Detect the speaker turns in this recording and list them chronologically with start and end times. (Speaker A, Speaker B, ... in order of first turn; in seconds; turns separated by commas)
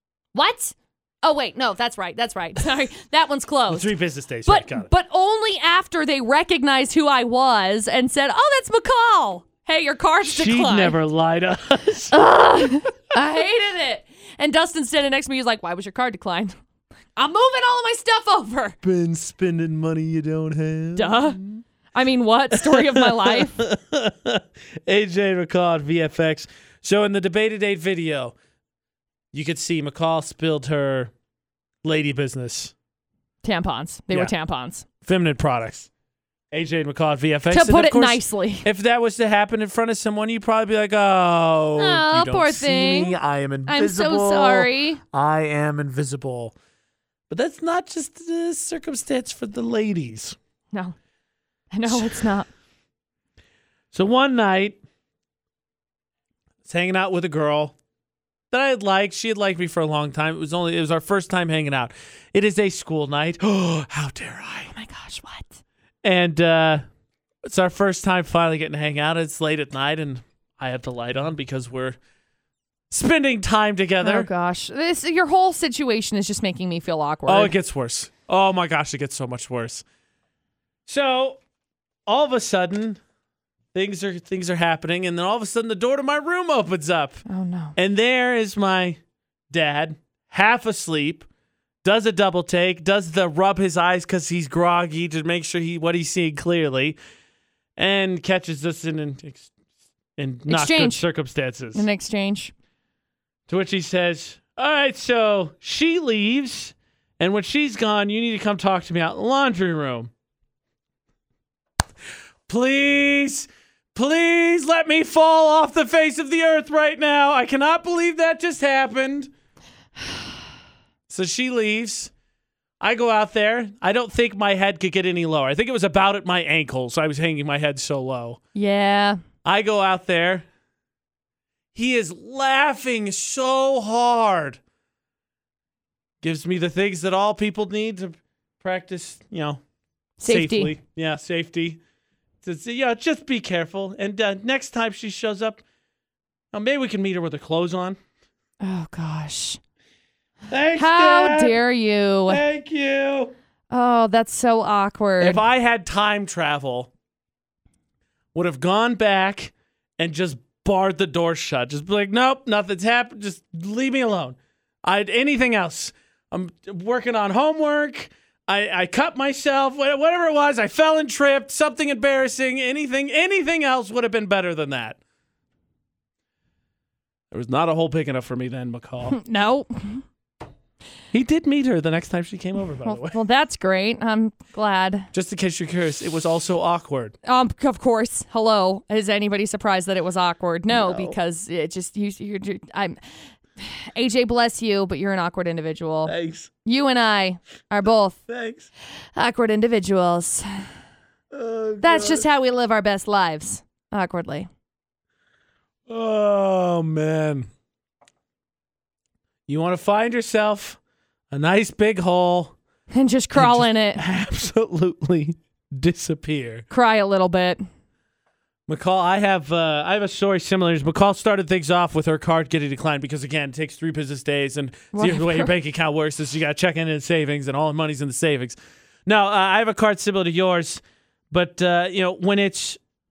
Speaker A: 0.3-11.0, Speaker B: 3.7-4.9, Speaker B: 10.2-12.2, Speaker A: 12.1-16.6, Speaker A: 17.1-18.8, Speaker B: 18.8-21.6, Speaker A: 20.9-21.4, Speaker A: 21.9-23.6, Speaker B: 22.6-28.3, Speaker B: 29.3-31.1, Speaker B: 31.8-32.7, Speaker A: 33.4-34.9, Speaker B: 35.0-35.9, Speaker B: 36.5-46.5, Speaker A: 37.5-38.6, Speaker A: 41.8-45.0, Speaker B: 47.3-50.4, Speaker A: 51.7-52.5, Speaker B: 51.9-52.2, Speaker B: 53.9-54.8, Speaker B: 56.6-57.8, Speaker B: 58.5-64.7, Speaker A: 64.7-65.6, Speaker B: 66.0-66.8, Speaker B: 67.4-72.0, Speaker B: 72.9-74.3, Speaker A: 74.0-77.5, Speaker B: 77.3-79.8, Speaker B: 80.8-81.4, Speaker B: 82.1-83.0, Speaker B: 83.7-87.2, Speaker A: 87.3-87.8, Speaker B: 87.8-89.0, Speaker B: 89.5-91.3, Speaker B: 91.8-97.0, Speaker B: 97.8-99.5, Speaker B: 100.2-101.8, Speaker A: 100.5-101.1, Speaker A: 101.7-102.5, Speaker B: 103.5-110.1, Speaker B: 112.5-119.3, Speaker B: 121.1-122.1, Speaker B: 122.8-128.4, Speaker A: 128.6-129.2, Speaker B: 129.4-130.4, Speaker B: 131.7-134.6, Speaker B: 136.2-139.6, Speaker A: 140.2-140.8, Speaker B: 140.2-141.8, Speaker B: 142.4-145.6, Speaker B: 146.5-148.0, Speaker A: 148.6-149.6, Speaker B: 150.5-151.6, Speaker A: 150.8-152.4, Speaker B: 152.3-153.3, Speaker A: 153.7-155.4, Speaker B: 155.2-156.9, Speaker B: 158.3-175.0, Speaker B: 177.3-179.2, Speaker A: 179.1-180.1, Speaker B: 181.1-183.2, Speaker A: 182.8-185.1, Speaker B: 185.1-187.1, Speaker A: 187.2-193.0, Speaker B: 190.7-191.2, Speaker A: 193.6-196.1, Speaker B: 196.1-196.5, Speaker A: 196.7-198.2, Speaker B: 198.3-198.7, Speaker A: 199.2-200.7, Speaker B: 201.3-202.3, Speaker A: 201.8-204.5, Speaker B: 205.9-207.5, Speaker B: 209.5-210.8, Speaker B: 211.3-212.6, Speaker A: 212.9-214.0, Speaker B: 213.3-216.7, Speaker A: 216.7-217.6, Speaker B: 218.7-232.8, Speaker A: 224.9-225.5